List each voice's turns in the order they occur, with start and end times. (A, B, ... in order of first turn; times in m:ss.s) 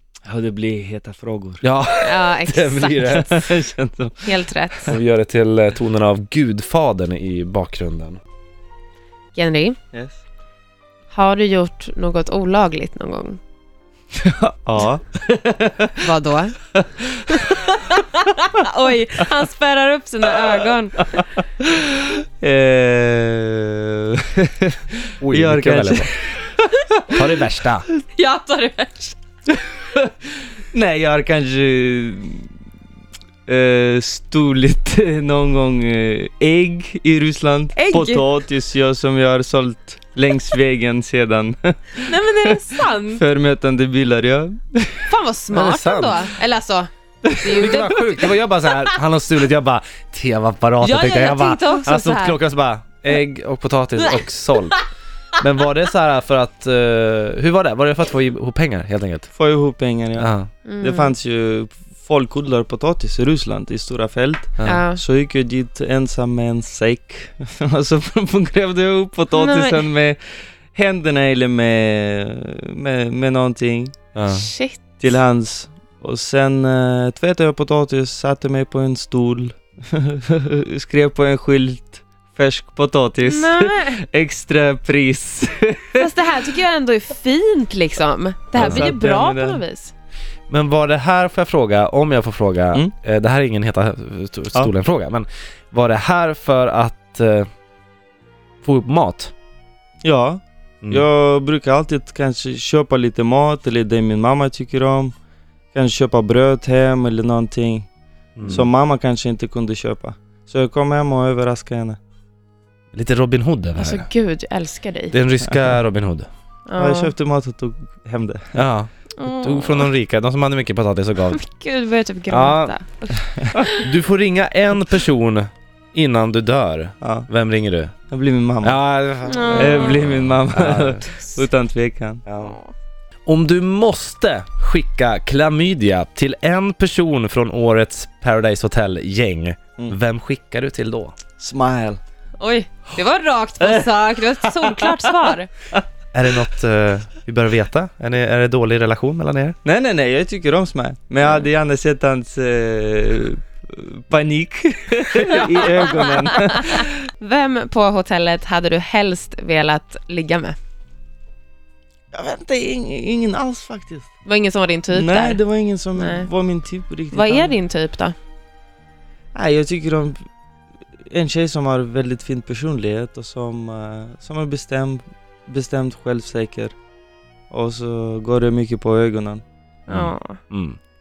0:00.2-0:01.6 A
0:01.6-0:03.4 B
0:02.0-0:03.3 C
0:03.1-0:04.9 A
0:04.2-0:04.9 C
0:04.8-0:08.2 B
0:09.3-0:09.8 C
0:09.9-0:10.2 A
0:11.1-0:13.4 C
0:14.1-0:16.0 A
0:16.0-0:16.6 C
0:16.8-0:17.8 A
0:17.3-0:21.2 C
0:21.1-0:26.6 A
0:25.2-0:26.1 B
0:27.1-0:27.8 B
0:28.2-0:29.2 C
0:30.7-0:32.5 A
0:33.5-0:45.1 A
0:37.7-0:38.2 C
0:42.0-0:43.2 C
0:45.1-0:48.4 C
0:45.5-0:46.2 B
0:47.4-0:54.8 B
0:50.8-0:52.4 C
0:55.4-0:59.3 B
0:59.3-1:14.0 A
1:00.2-1:00.5 B
1:00.6-1:01.1 C
1:04.6-1:05.0 C
1:09.3-1:09.9 C
1:14.1-1:14.5 B
1:14.3-1:14.8 C
1:15.0-1:26.0 A
1:23.2-1:24.0 C
1:26.0-1:29.9 C
1:28.5-1:29.6 A
1:28.6-1:28.8 B
1:30.5-1:37.5 B
1:38.6-1:39.3 B
1:40.0-1:45.1 A
1:45.7-1:47.9 A
1:48.4-1:48.7 B
1:48.4-1:52.0 A
1:52.9-1:54.1 B
1:53.8-1:55.1 C
1:55.1-1:56.3 B
1:56.7-1:57.1 C
1:56.8-1:58.6 A
1:58.5-2:01.4 B
1:59.2-1:59.9 C
2:01.3-2:03.9 C
2:02.3-2:02.8 B
2:03.8-2:07.9 B
2:07.0-2:07.3 A
2:08.1-2:08.8 A
2:08.6-2:11.0 B
2:09.2-2:10.0 C
2:09.5-2:12.2 A
2:12.2-2:12.6 B
2:12.4-2:12.7 C
2:13.2-2:21.1 B
2:21.4-2:22.0 A
2:22.4-2:25.5 C
2:23.6-2:25.8 A
2:26.1-2:29.6 B
2:29.6-2:36.9 A
2:35.8-2:40.6 C
2:42.1-2:44.1 A
2:44.2-2:45.4 C
2:44.9-2:47.6 A
2:45.9-2:46.3 C
2:47.1-2:48.1 C
2:49.3-2:50.2 A
2:51.1-2:56.7 A
2:57.5-2:59.4 A
2:59.9-3:00.4 C
2:59.9-3:00.8 B